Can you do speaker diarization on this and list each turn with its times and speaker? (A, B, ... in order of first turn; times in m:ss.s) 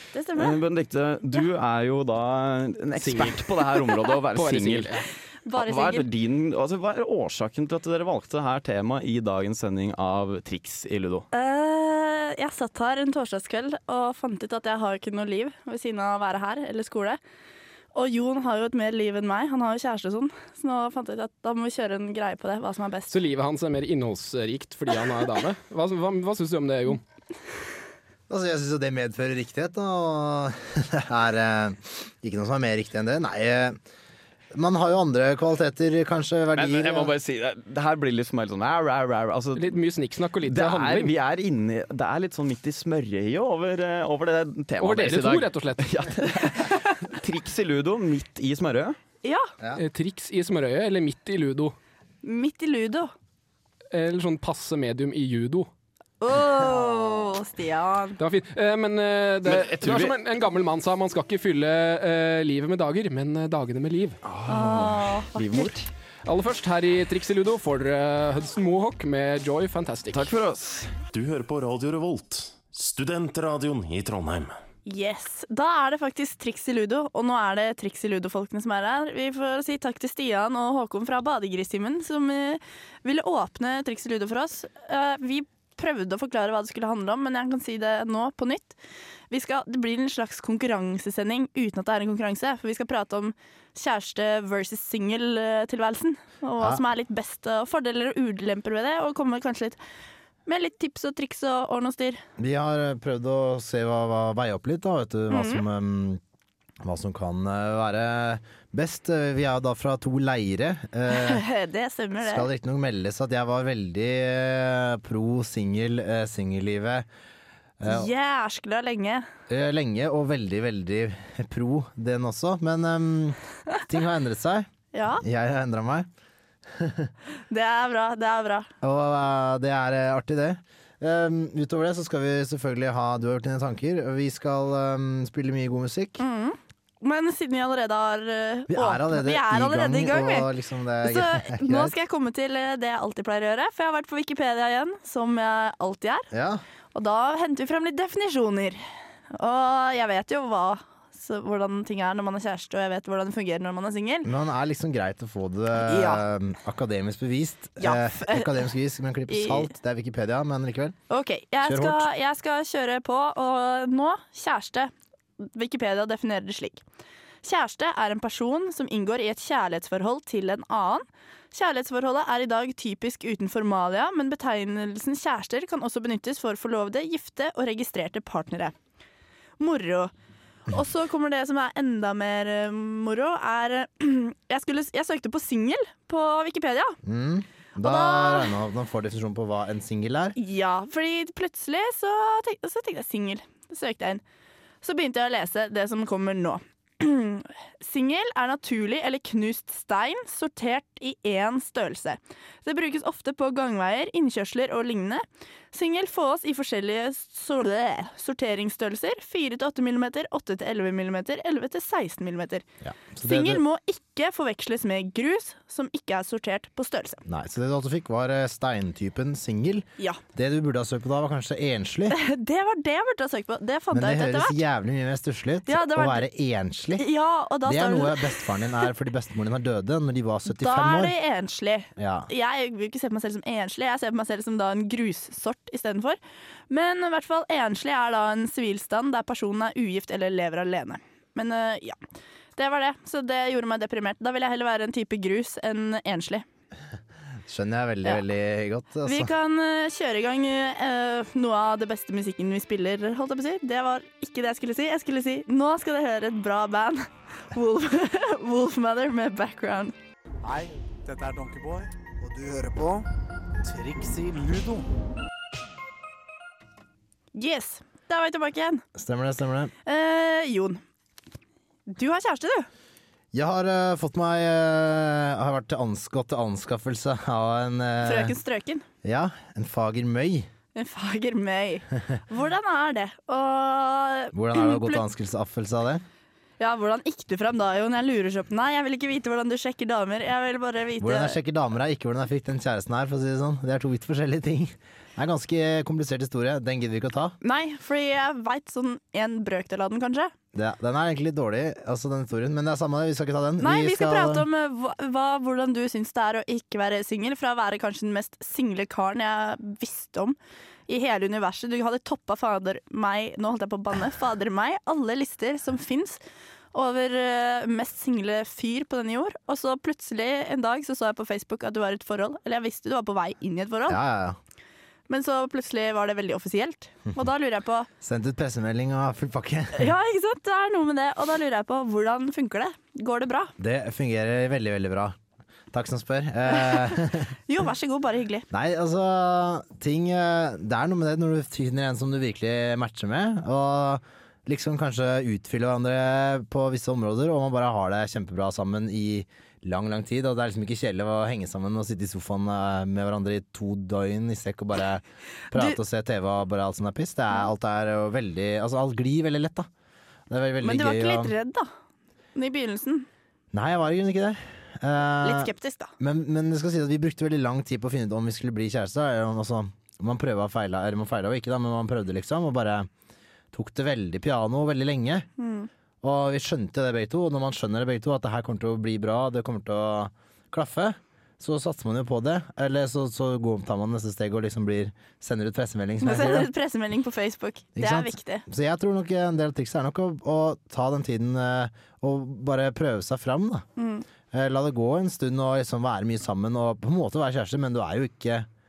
0:00.1-0:00.6 A
0:00.3-0:04.9 B
0:03.0-0:05.0 C
0:05.4-0:06.1 A
0:05.5-0:11.3 B
0:11.3-0:17.2 A
0:17.9-0:23.2 A
0:23.1-0:27.0 C
0:28.3-0:33.8 D
0:34.5-0:37.1 D
0:36.5-0:39.6 B
0:39.6-0:41.1 C
0:40.4-0:49.0 B
0:44.8-0:46.6 C
0:49.2-0:49.5 A
0:49.8-0:51.7 C
0:52.2-0:53.1 A
0:53.9-0:55.7 C
0:56.2-0:58.2 A
0:58.2-1:04.2 C
0:59.4-1:00.2 B
1:04.3-1:05.8 B
1:04.4-1:05.7 A
1:06.2-1:10.3 C
1:10.1-1:10.9 B
1:11.1-1:14.5 E
1:14.8-1:28.8 A
1:29.3-1:39.8 A
1:40.4-1:42.2 A
1:42.4-1:46.2 D
1:45.3-1:45.6 A
1:46.8-1:51.4 D
1:51.1-1:52.4 A
1:52.2-1:57.0 D
1:57.8-1:58.1 D
1:57.8-1:59.3 A
1:59.5-2:04.7 D
2:04.9-2:05.2 A
2:05.2-2:06.1 D
2:06.7-2:07.1 D
2:07.5-2:08.7 A
2:08.8-2:16.2 D
2:16.2-2:20.5 A
2:18.7-2:21.9 D
2:21.0-2:26.3 A
2:26.3-2:26.6 D
2:26.9-2:28.8 A
2:29.3-2:34.3 A
2:34.2-2:40.9 D
2:35.7-2:36.2 A
2:37.8-2:38.5 A
2:39.3-2:39.7 A
2:41.1-2:46.8 A
2:41.6-2:42.1 D
2:47.4-2:58.7 A
2:59.6-3:00.1 A
3:00.7-3:07.0 A
3:07.0-3:10.4 D
3:07.8-3:08.5 A
3:10.4-3:14.2 A
3:14.8-3:32.6 A
3:32.8-3:33.6 D
3:33.2-3:37.2 A
3:37.2-3:42.2 D
3:42.1-3:44.6 A
3:43.9-3:47.0 D
3:45.6-3:46.2 A
3:47.0-3:48.5 A
3:47.6-3:51.1 D
3:50.5-3:56.2 A
3:52.0-3:52.3 D
3:56.7-4:02.0 A
4:02.6-4:06.4 A
4:07.4-4:09.3 D
4:09.0-4:19.9 A
4:20.4-4:23.1 F
4:23.6-4:24.9 F
4:27.3-4:28.8 A
4:29.0-4:29.7 D
4:29.8-4:30.8 A
4:31.9-4:32.7 A
4:33.3-4:38.3 D
4:38.0-4:38.8 A
4:39.0-4:40.5 D
4:40.7-4:45.0 A
4:44.3-4:46.0 D
4:46.6-4:51.3 A
4:51.0-4:57.4 D
4:57.4-5:00.3 A
5:00.5-5:04.5 D
5:03.6-5:10.4 A
5:10.9-5:16.2 A
5:16.7-5:24.0 A
5:23.9-5:24.4 D
5:25.1-5:27.9 A
5:28.0-5:29.9 D
5:29.7-5:33.5 A
5:33.6-5:35.2 D
5:35.7-5:37.3 D
5:36.5-5:36.9 A
5:37.5-5:38.5 A
5:38.5-5:59.7 D
5:55.5-5:55.8 A
6:00.3-6:01.3 D
6:00.6-6:01.7 A
6:02.3-6:03.1 A
6:03.5-6:12.9 D
6:05.2-6:05.9 A
6:13.5-6:15.3 D
6:15.4-6:15.7 A
6:16.0-6:26.5 D
6:26.0-6:28.4 A
6:27.8-6:33.6 D
6:33.8-6:34.0 A
6:34.3-6:38.5 D